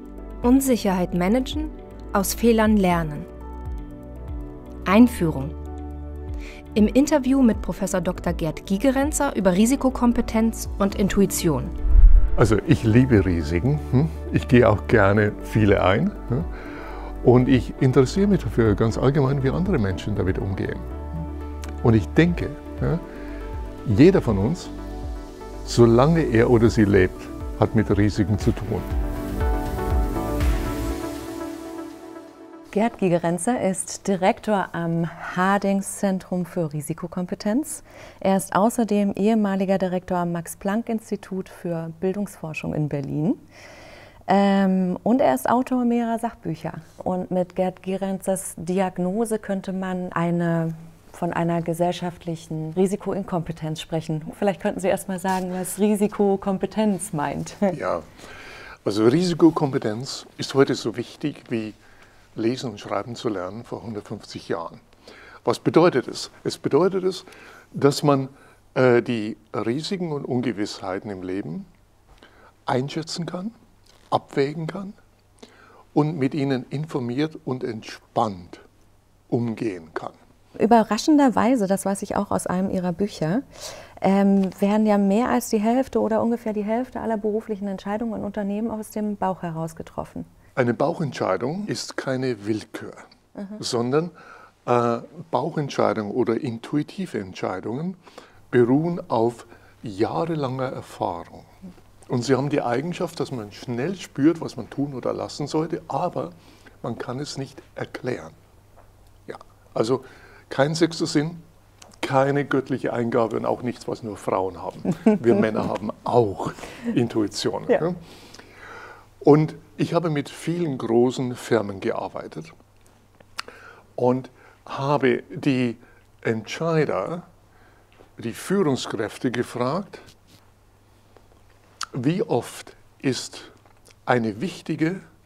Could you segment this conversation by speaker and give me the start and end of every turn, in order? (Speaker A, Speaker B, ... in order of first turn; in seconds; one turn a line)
Speaker A: 0.4-3.3
Speaker A: 4.8-5.5
Speaker A: 6.7-11.7
Speaker B: 12.4-16.5
Speaker B: 17.2-20.9
Speaker B: 21.8-23.0
Speaker B: 23.8-24.7
Speaker B: 25.6-28.9
Speaker C: 32.7-43.4
Speaker C: 44.3-57.8
Speaker B: 57.7-58.1
Speaker B: 58.8-61.8
Speaker B: 62.3-64.8
Speaker B: 65.4-71.7
Speaker B: 72.7-73.5
Speaker B: 74.1-75.0
Speaker B: 75.9-78.6
Speaker B: 79.3-80.2
Speaker C: 80.5-90.3
Speaker B: 90.5-93.0
Speaker B: 93.6-98.0
Speaker B: 98.5-101.5
Speaker B: 102.1-108.3
Speaker B: 109.3-111.4
Speaker B: 112.0-118.0
Speaker B: 119.2-122.5
Speaker B: 124.0-127.3
Speaker B: 128.2-130.1
Speaker B: 131.9-133.5
Speaker B: 134.1-135.0